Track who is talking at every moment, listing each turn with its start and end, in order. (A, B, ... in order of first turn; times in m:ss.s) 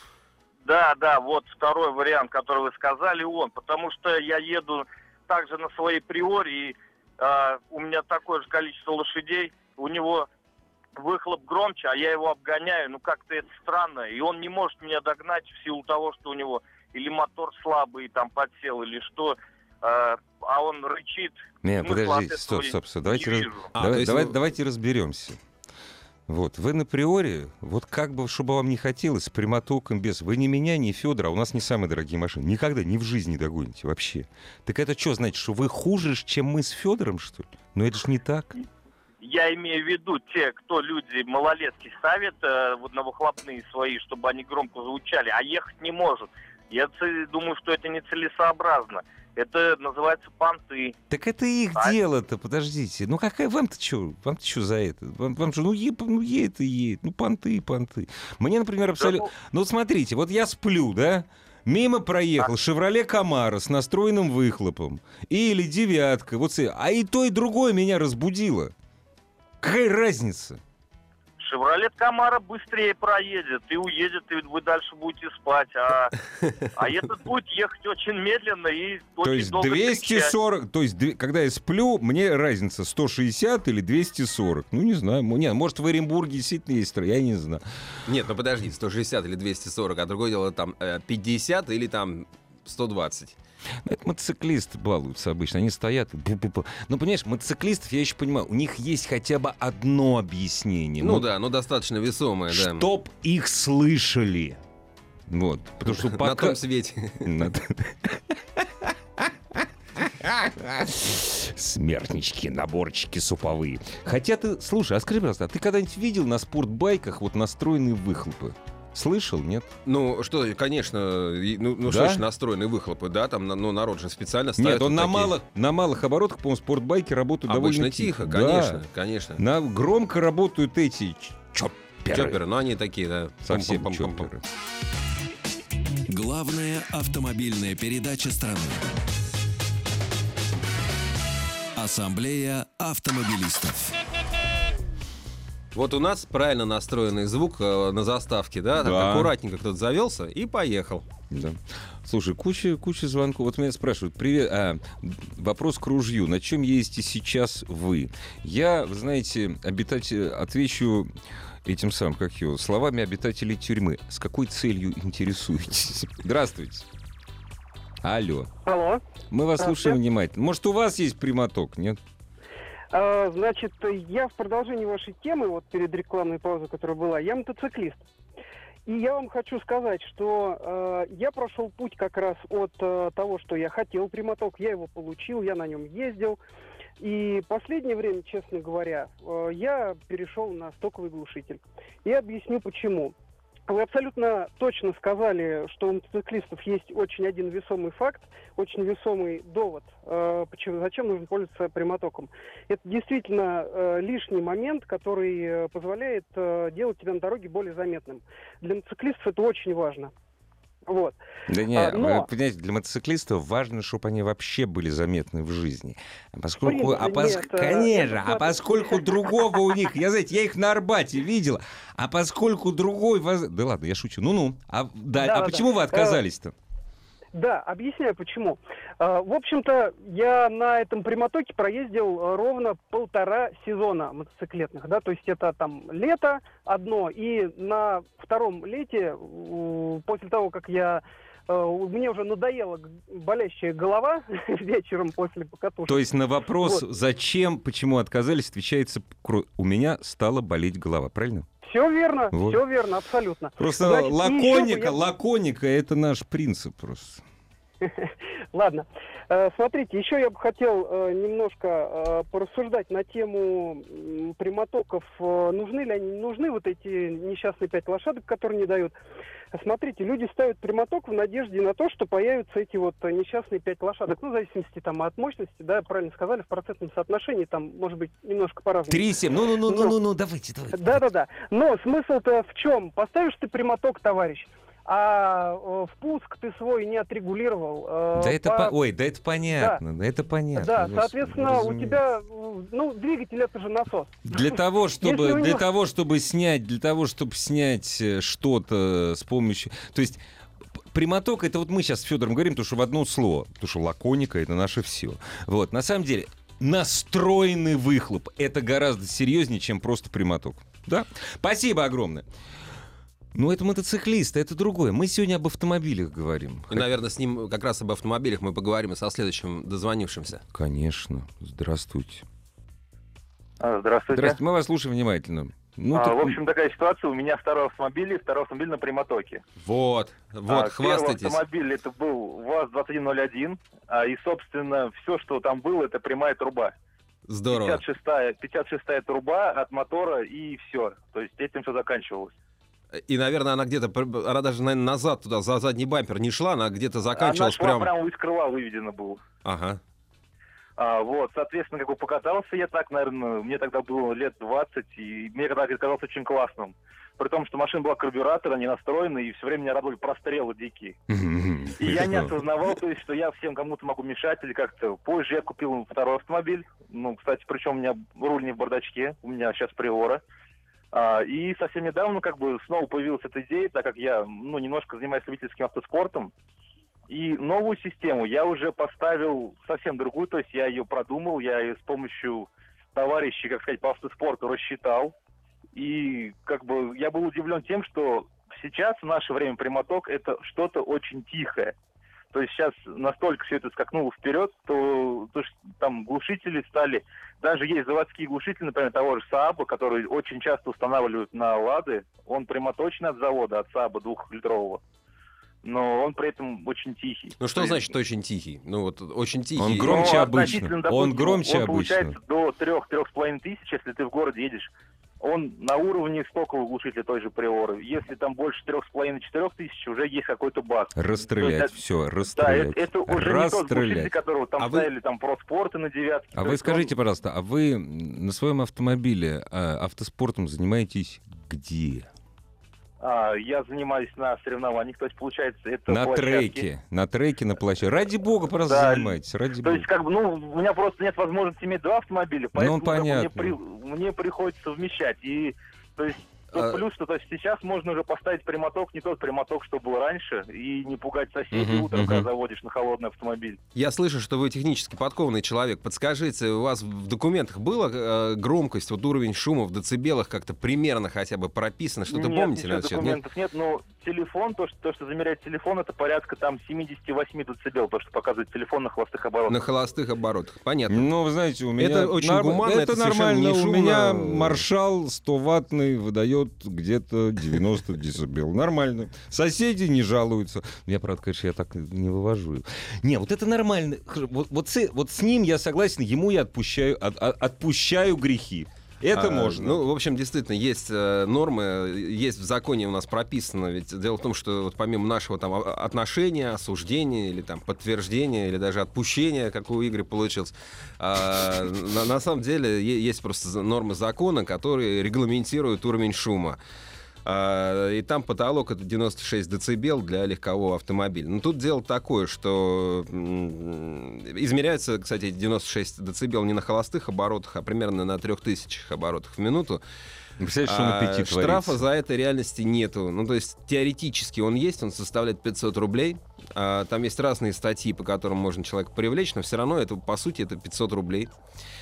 0:00.6-0:10.3 A
0:11.0-0:23.7 A
0:21.6-0:25.4 B
0:23.8-0:24.4 C
0:26.3-0:38.6 B
0:39.2-0:51.0 A
0:51.1-1:08.7 B
0:59.0-0:59.3 A
1:09.6-1:10.6 B
1:11.4-1:16.2 A
1:16.8-1:20.3 A
1:19.2-1:27.6 B
1:28.1-1:33.4 C
1:33.8-1:41.3 B
1:41.0-1:42.9 C
1:42.5-1:44.6 B
1:45.3-1:46.6 B
1:45.8-1:47.3 C
1:47.2-1:48.3 B
1:50.0-1:59.7 B
1:59.9-2:05.4 C
2:01.8-2:02.2 B
2:04.6-2:08.8 B
2:07.5-2:09.4 C
2:09.4-2:12.4 B
2:12.1-2:14.3 C
2:13.4-2:14.4 B
2:16.1-2:18.9 D
2:21.8-2:24.0 D
2:25.7-2:31.0 C
2:28.7-2:29.3 B
2:31.3-2:41.1 B
2:41.6-2:46.9 B
2:48.0-2:48.5 B
2:48.6-2:49.0 E
2:49.3-2:52.0 B
2:49.6-2:50.0 E
2:52.9-2:58.1 E
2:58.9-3:06.4 E
3:07.0-3:13.1 E
3:13.7-3:30.1 E
3:30.9-3:31.2 E
3:31.5-3:46.5 B
3:31.7-3:32.3 E
3:36.6-3:39.0 E
3:45.2-3:46.2 E
3:47.3-4:06.8 E
4:05.9-4:11.5 B
4:11.6-4:15.0 E
4:12.3-4:12.6 B
4:13.6-4:17.2 B
4:17.8-4:29.0 E
4:29.5-4:39.1 E
4:38.9-4:41.0 B
4:39.6-4:40.0 E
4:40.7-4:48.8 E
4:48.1-4:52.0 B
4:49.4-4:49.8 E
4:50.6-4:55.7 E
4:54.3-5:00.2 B
5:00.9-5:12.3 B
5:13.4-5:16.9 B
5:16.7-5:20.4 C
5:20.5-5:22.2 B
5:23.6-5:24.4 F
5:24.1-5:26.4 B
5:25.9-5:29.4 F
5:29.6-5:31.4 C
5:30.5-5:36.7 F
5:37.3-5:37.8 C
5:37.5-5:42.3 F
5:43.1-5:47.9 C
5:47.1-5:49.2 F
5:49.4-5:49.8 C
5:50.8-6:01.0 F
6:01.1-6:02.3 B
6:01.8-6:10.2 F
6:10.9-6:16.3 F
6:17.1-6:25.1 F
6:25.7-6:31.7 F
6:32.3-6:44.8 F
6:45.6-6:47.8 F
6:47.4-6:50.4 C
6:49.6-6:52.2 B
6:49.8-7:01.7 F
7:01.0-7:04.2 B
7:02.2-7:06.9 F
7:04.6-7:04.9 C
7:06.3-7:12.1 B
7:13.0-7:16.7 F
7:15.9-7:19.9 B
7:18.7-7:33.6 F
7:22.6-7:23.6 B
7:26.5-7:26.8 C
7:31.5-7:32.3 B
7:33.8-7:43.2 C
7:42.1-7:49.6 F
7:49.5-7:51.1 C
7:50.9-8:09.8 B
7:51.8-7:54.6 C
8:09.1-8:26.6 C
8:27.2-8:39.8 C
8:40.4-8:41.8 B
8:40.6-8:51.4 C